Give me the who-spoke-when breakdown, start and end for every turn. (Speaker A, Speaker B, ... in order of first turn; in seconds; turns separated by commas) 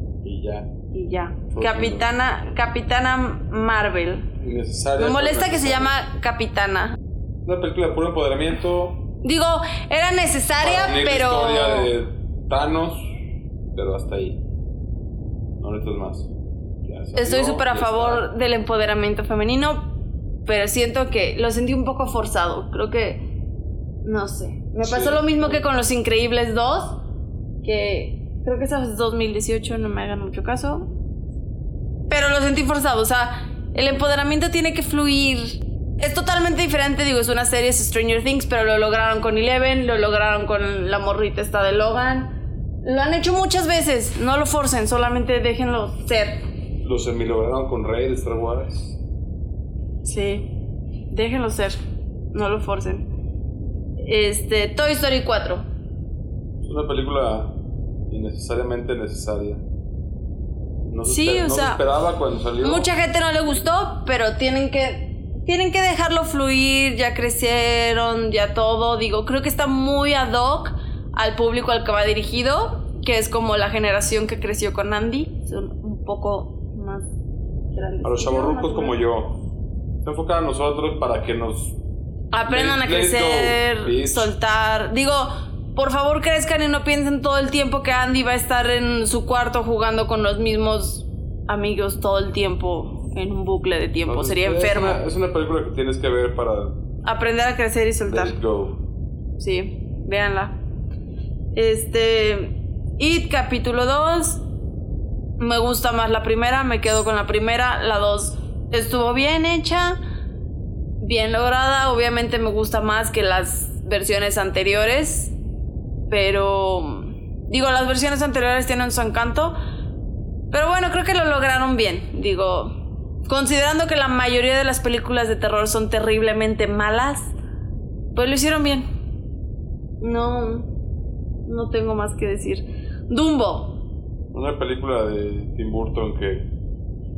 Speaker A: 0.2-0.7, Speaker B: 0.9-4.3, Speaker A: 1.5-2.1, Speaker A: 4.4-6.0, Speaker B: 5.0-7.0, Speaker A: 7.5-9.0, Speaker B: 9.2-11.9, Speaker A: 10.6-13.1, Speaker A: 13.7-14.4, Speaker A: 15.6-16.3, Speaker A: 16.8-18.2, Speaker B: 17.1-19.9, Speaker B: 20.4-23.2, Speaker B: 24.0-27.0, Speaker A: 24.8-25.6, Speaker B: 27.6-30.9, Speaker B: 32.1-42.3, Speaker B: 42.8-46.4, Speaker A: 46.8-49.0, Speaker B: 50.0-50.5, Speaker B: 51.1-51.8, Speaker B: 52.3-53.0, Speaker B: 54.0-55.6, Speaker A: 56.6-57.6, Speaker A: 58.1-59.6, Speaker A: 60.9-62.9, Speaker B: 61.0-61.8, Speaker B: 62.6-77.1, Speaker B: 77.7-79.0, Speaker A: 78.0-79.4, Speaker A: 80.0-81.8, Speaker B: 82.3-95.0, Speaker A: 82.5-84.3, Speaker A: 94.0-96.7, Speaker B: 97.0-98.4, Speaker A: 98.0-98.8, Speaker B: 99.4-100.5, Speaker B: 101.5-104.4, Speaker B: 105.4-110.0, Speaker B: 111.0-115.3, Speaker B: 116.1-119.5, Speaker B: 120.5-122.7, Speaker B: 123.3-127.3, Speaker B: 128.1-128.9, Speaker B: 130.0-130.7, Speaker B: 131.5-133.8, Speaker A: 134.3-136.5